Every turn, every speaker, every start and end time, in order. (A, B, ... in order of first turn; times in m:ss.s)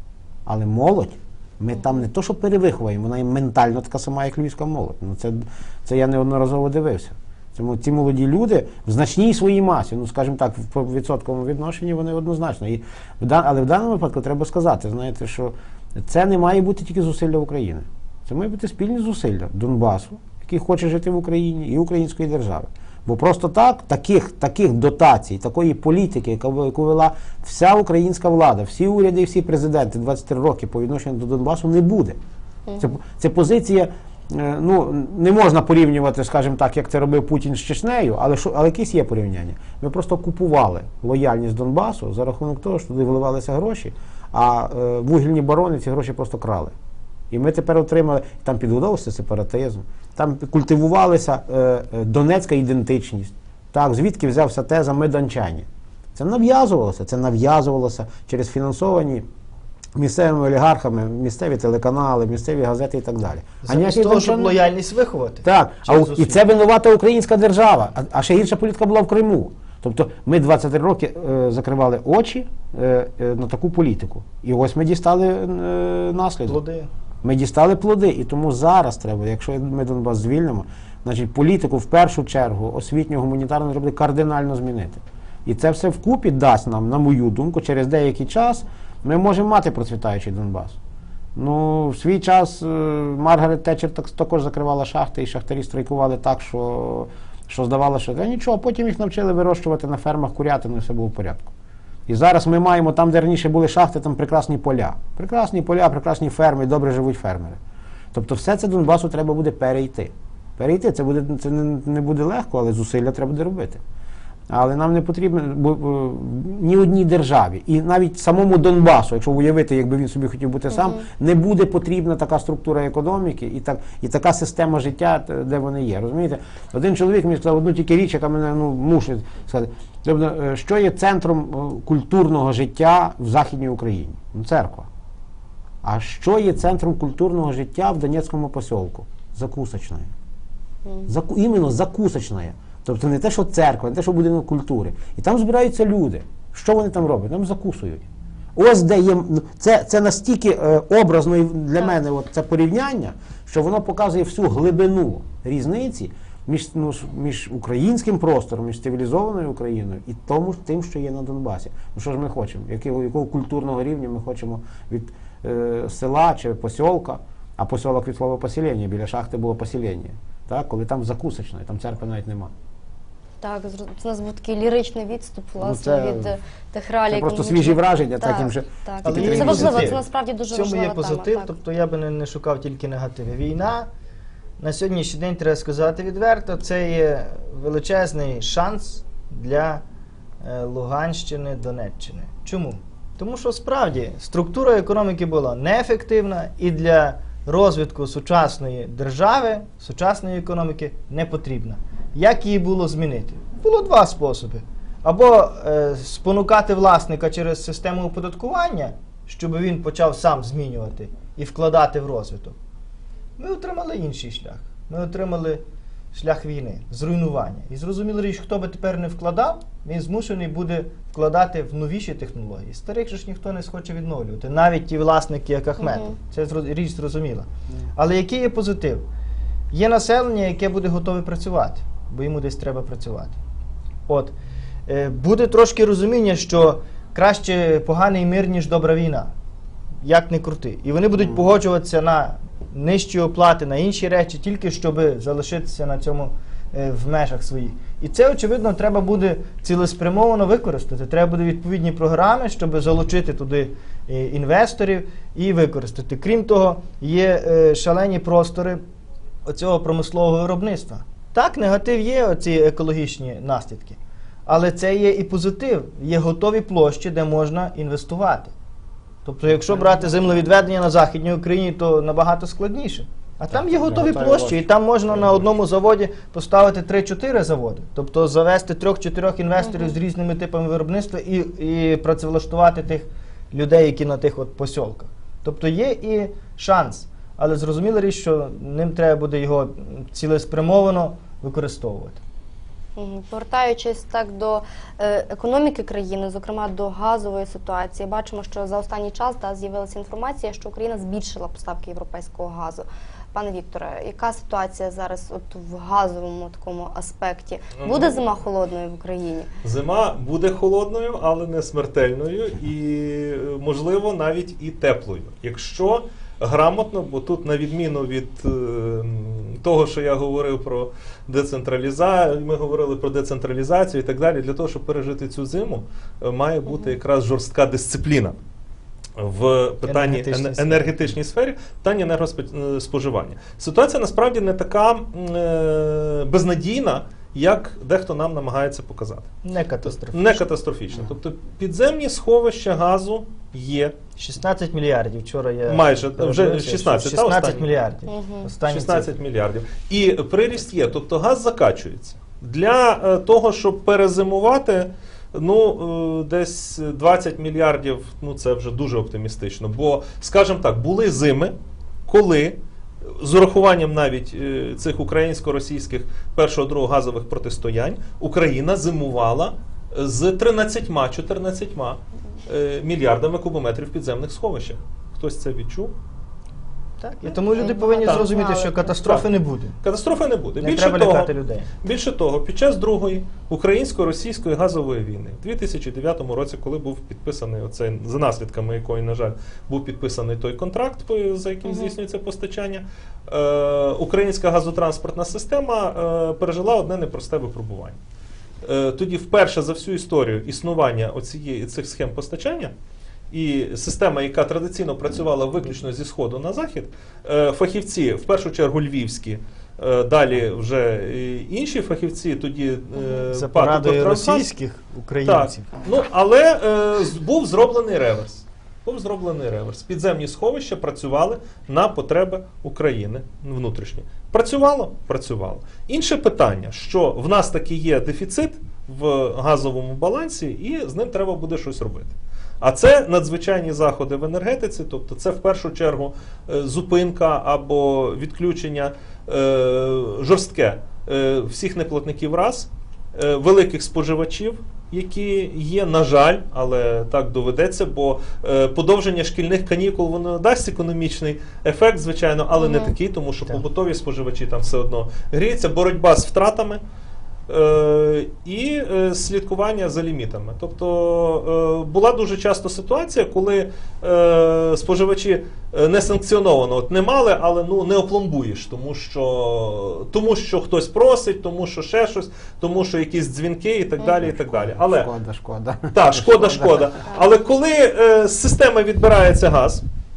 0:00.4-0:32.2 A
0:32.7-0:33.0 B
0:32.8-0:46.7 A
0:47.3-0:59.2 A
1:00.0-1:04.6 A
1:03.6-1:06.4 C
1:05.4-1:16.6 A
1:16.5-1:16.9 C
1:17.2-1:30.8 A
1:31.4-1:41.5 A
1:42.1-1:47.6 A
1:48.1-1:53.8 A
1:54.5-2:14.9 A
2:00.7-2:01.0 B
2:15.8-2:20.1 A
2:21.0-2:52.5 A
2:53.4-3:01.5 B
2:55.6-2:56.3 A
2:57.1-3:00.0 A
2:59.0-3:03.9 C
3:04.6-3:09.8 C
3:10.4-3:32.6 C
3:33.4-3:35.6 C
3:36.1-3:49.0 C
3:45.8-3:46.1 B
3:49.7-3:53.4 C
3:54.1-3:54.3 C
3:54.9-3:59.3 C
4:00.0-4:18.8 C
4:19.4-4:28.5 C
4:29.2-4:52.2 C
4:33.5-4:35.5 A
4:39.6-4:40.0 B
4:53.0-5:09.5 B
5:07.8-5:08.2 D
5:09.6-5:28.4 D
5:26.7-5:27.0 B
5:29.2-5:39.3 D
5:29.8-5:31.1 C
5:39.4-5:40.4 C
5:40.0-5:43.9 D
5:44.2-5:49.1 C
5:45.7-5:47.8 D
5:48.1-5:48.5 B
5:48.6-6:01.5 D
6:02.0-6:15.9 D
6:17.0-6:19.8 C
6:17.3-6:19.0 B
6:17.6-6:18.3 D
6:19.8-6:21.3 D
6:20.6-6:21.7 C
6:21.8-6:38.0 D
6:31.6-6:31.9 B
6:38.6-6:42.7 D
6:43.3-6:54.5 D
6:53.3-6:55.7 C
6:55.2-7:36.8 D
7:32.6-7:32.9 B
7:37.5-7:55.1 D
7:54.2-7:57.0 A
7:55.9-7:59.8 D